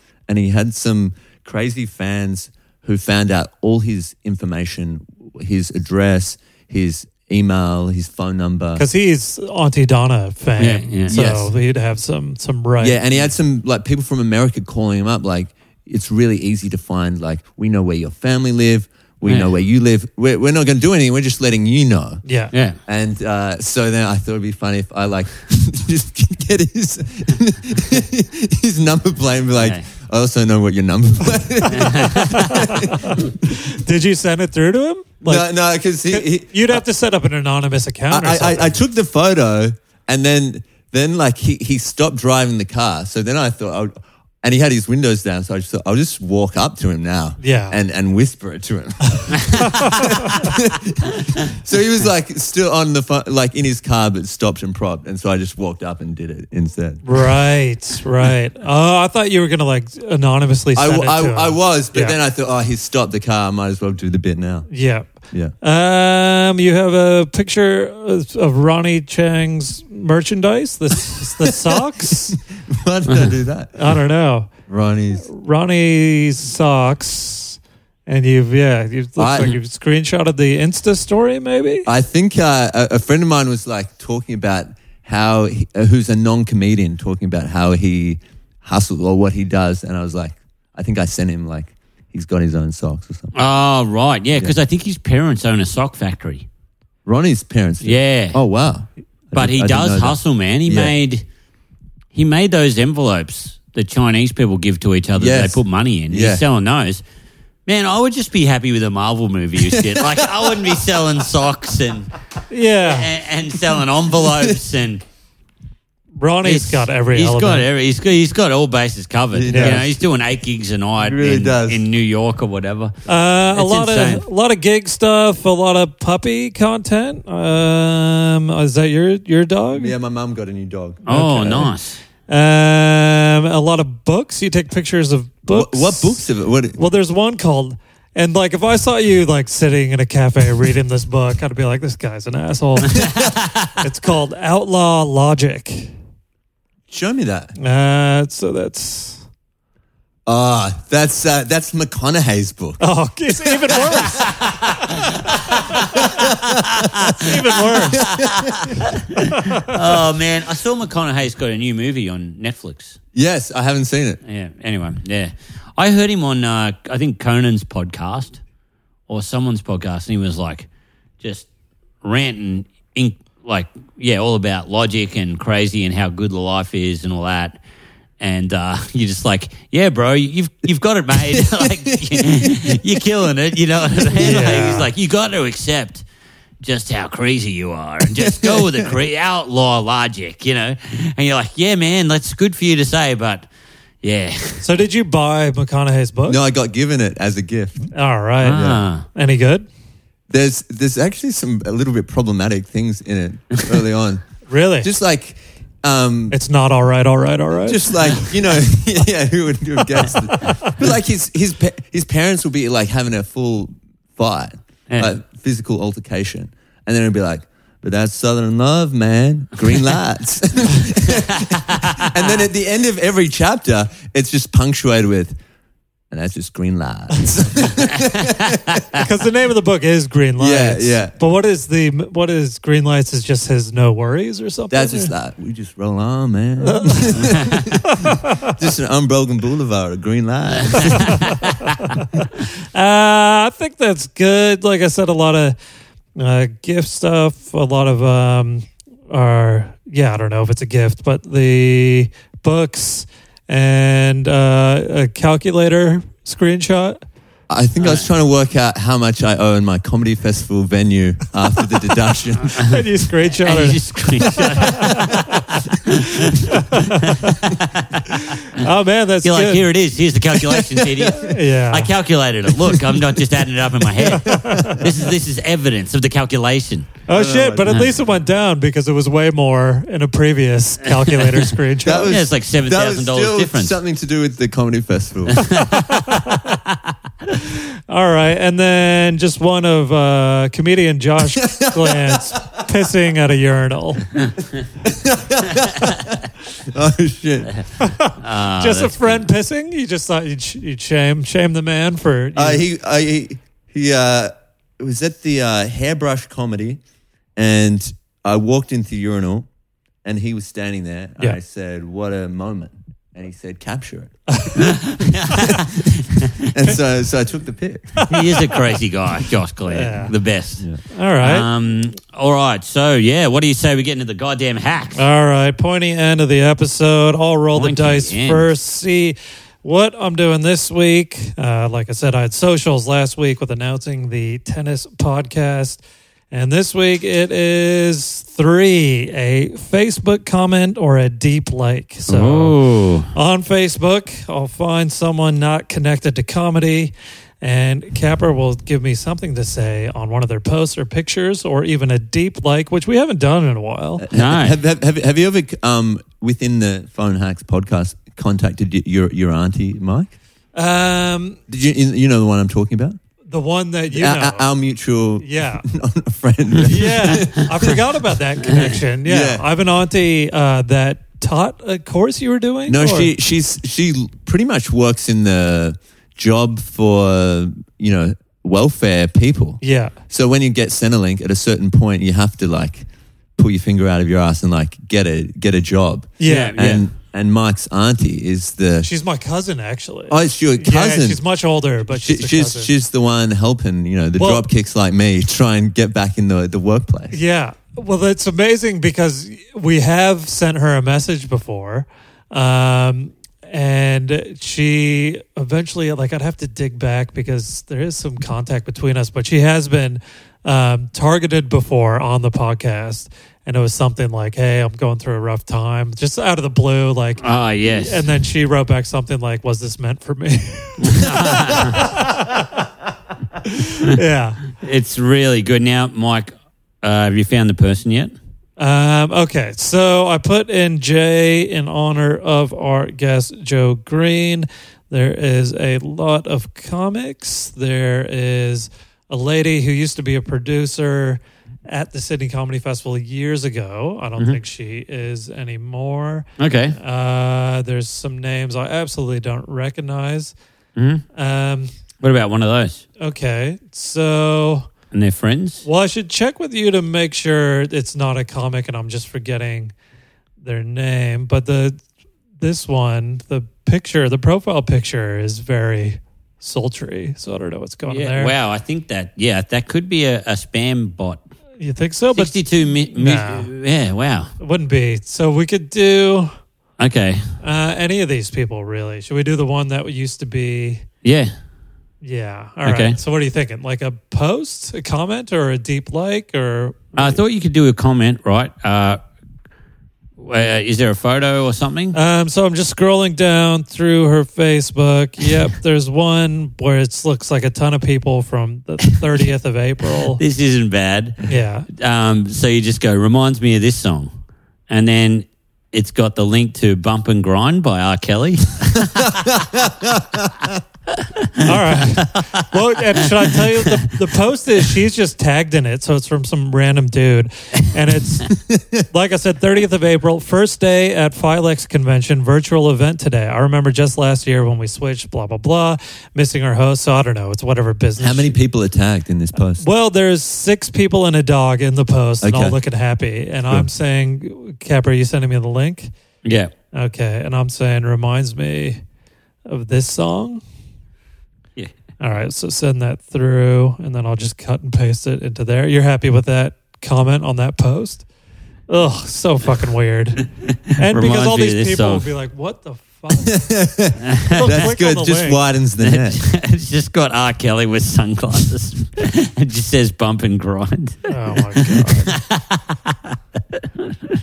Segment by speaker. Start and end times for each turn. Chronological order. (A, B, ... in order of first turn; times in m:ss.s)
0:00.3-0:08.8 A
0:08.8-0:13.0 B
0:10.6-0:11.3 C
0:11.1-0:11.4 A
0:12.8-0:22.2 A
0:19.2-0:19.5 C
0:22.3-0:22.5 B
0:22.5-0:22.8 C
0:22.9-0:33.2 A
0:29.6-0:29.8 C
0:31.7-0:32.7 C
0:32.3-0:35.5 B
0:35.2-0:36.8 A
0:36.1-0:38.8 B
0:38.1-0:57.0 A
0:47.4-0:47.8 B
0:49.7-0:50.3 B
0:57.0-1:02.2 B
1:00.8-1:04.7 A
1:04.7-1:05.1 B
1:05.6-1:12.4 B
1:11.4-1:13.8 A
1:13.8-1:14.5 B
1:14.7-1:15.3 A
1:15.2-1:21.9 B
1:19.2-1:19.6 A
1:21.9-1:33.3 A
1:33.3-1:36.5 C
1:37.1-1:41.0 A
1:37.8-1:38.4 C
1:39.3-1:41.2 C
1:42.1-1:47.0 C
1:45.2-1:46.4 A
1:47.7-1:52.1 C
1:49.6-1:50.5 A
1:52.5-1:53.1 B
1:52.8-1:55.0 C
1:54.2-1:54.6 A
1:56.2-1:57.7 B
1:56.4-2:03.0 C
1:59.3-2:00.0 A
1:59.5-1:59.8 B
2:01.0-2:01.8 A
2:03.1-2:09.9 B
2:03.5-2:04.2 C
2:09.8-2:11.1 A
2:11.1-2:12.0 C
2:11.1-2:11.7 B
2:12.3-2:16.2 B
2:15.5-2:16.8 A
2:16.8-2:23.1 B
2:22.9-2:23.3 A
2:23.0-2:23.7 C
2:23.8-2:25.9 B
2:26.9-2:27.5 A
2:27.6-2:29.2 B
2:30.3-2:32.8 A
2:32.8-2:34.4 B
2:33.3-2:34.3 A
2:34.1-2:43.0 C
2:35.6-2:36.3 B
2:35.9-2:36.9 A
2:37.1-2:38.0 B
2:37.9-2:38.8 A
2:39.3-2:39.8 B
2:43.1-2:44.2 A
2:44.2-2:48.4 C
2:49.1-2:50.7 C
2:51.2-2:51.5 C
2:52.0-2:57.6 C
2:58.2-3:06.0 C
3:01.2-3:03.1 A
3:04.2-3:04.9 B
3:06.6-3:13.5 C
3:08.2-3:08.9 A
3:14.0-3:14.7 C
3:14.6-3:16.4 B
3:16.3-3:17.9 A
3:17.9-3:19.7 B
3:18.4-3:19.0 C
3:18.5-3:18.8 A
3:20.3-3:24.3 A
3:24.5-3:24.9 B
3:24.8-3:26.4 A
3:26.3-3:28.3 B
3:27.6-3:45.4 A
3:30.3-3:30.7 B
3:41.1-3:42.3 C
3:46.1-3:49.0 A
3:49.0-3:55.1 B
3:50.4-3:51.2 A
3:54.7-4:01.4 A
3:56.6-3:58.6 B
4:01.1-4:05.6 B
4:06.2-4:17.0 B
4:17.5-4:22.7 A
4:17.8-4:18.1 C
4:22.6-4:25.5 B
4:23.4-4:28.7 C
4:26.3-4:27.3 B
4:28.1-4:29.6 B
4:29.2-4:36.9 C
4:30.5-4:31.2 A
4:31.1-4:31.9 B
4:32.7-4:33.0 A
4:34.0-4:34.8 B
4:34.0-4:34.9 A
4:37.1-4:42.2 B
4:37.1-4:37.8 A
4:40.9-4:41.5 C
4:41.8-4:45.5 A
4:42.0-4:43.8 C
4:45.3-4:46.2 C
4:45.5-4:46.6 B
4:47.5-4:54.1 B
4:51.4-4:52.4 A
4:54.8-4:57.5 A
4:57.8-5:02.6 B
4:58.2-4:59.3 C
5:02.4-5:06.8 A
5:07.4-5:09.5 A
5:10.0-5:14.5 A
5:14.3-5:14.8 B
5:14.7-5:16.3 C
5:15.3-5:18.0 A
5:18.0-5:18.7 B
5:18.1-5:20.7 C
5:19.7-5:20.1 B
5:20.9-5:21.5 B
5:21.2-5:25.0 C
5:25.0-5:35.8 B
5:27.5-5:28.5 C
5:36.3-5:42.6 B
5:42.1-5:43.1 C
5:43.1-5:54.0 B
5:54.0-6:00.1 A
5:54.1-5:54.6 C
6:00.6-6:01.4 B
6:01.5-6:03.0 A
6:03.3-6:04.5 B
6:03.9-6:07.8 A
6:05.2-6:05.6 B
6:06.6-6:13.1 B
6:09.0-6:09.5 A
6:12.7-6:22.9 A
6:19.6-6:20.0 B
6:23.4-6:28.9 A
6:26.2-6:26.8 B
6:26.2-6:26.8 C
6:28.8-6:32.7 B
6:30.1-6:31.2 A
6:31.8-6:37.2 A
6:34.2-6:34.5 B
6:37.1-7:02.6 B
6:57.2-6:58.1 C
7:00.8-7:01.9 C
7:03.4-7:04.4 B
7:04.5-7:08.1 C
7:08.6-7:30.4 B
7:26.4-7:26.8 C
7:30.8-7:31.0 C
7:31.2-7:31.7 B
7:32.0-7:32.8 C
7:33.0-7:34.7 B
7:34.9-7:35.6 C
7:35.6-7:39.7 B
7:40.4-7:41.8 B
7:42.4-7:48.3 B
7:47.9-7:51.3 C
7:51.6-7:52.4 B
7:52.2-7:54.3 C
7:52.9-7:53.5 B
7:54.4-7:56.3 B
7:56.8-7:57.2 C
7:57.4-8:00.8 B
8:01.0-8:01.3 C
8:02.0-8:07.2 B
8:02.6-8:03.0 C
8:07.0-8:09.0 C
8:10.2-8:12.0 C
8:11.9-8:20.2 B
8:20.2-8:24.1 C
8:21.3-8:21.7 B
8:24.7-8:29.4 C
8:29.0-8:30.6 A
8:31.0-8:32.4 C
8:31.4-8:38.3 B
8:33.2-8:33.8 C
8:38.3-8:38.8 A
8:38.9-8:48.4 B
8:48.0-8:49.6 A
8:49.6-8:55.9 B
8:52.2-8:52.6 A
8:56.2-8:56.5 C
8:56.7-8:58.8 B
8:59.5-9:00.4 B
9:02.0-9:08.1 B
9:08.7-9:13.4 B
9:10.5-9:12.1 C
9:13.2-9:16.2 A
9:14.1-9:14.5 C
9:14.3-9:15.4 B
9:15.8-9:24.1 C
9:21.1-9:22.2 B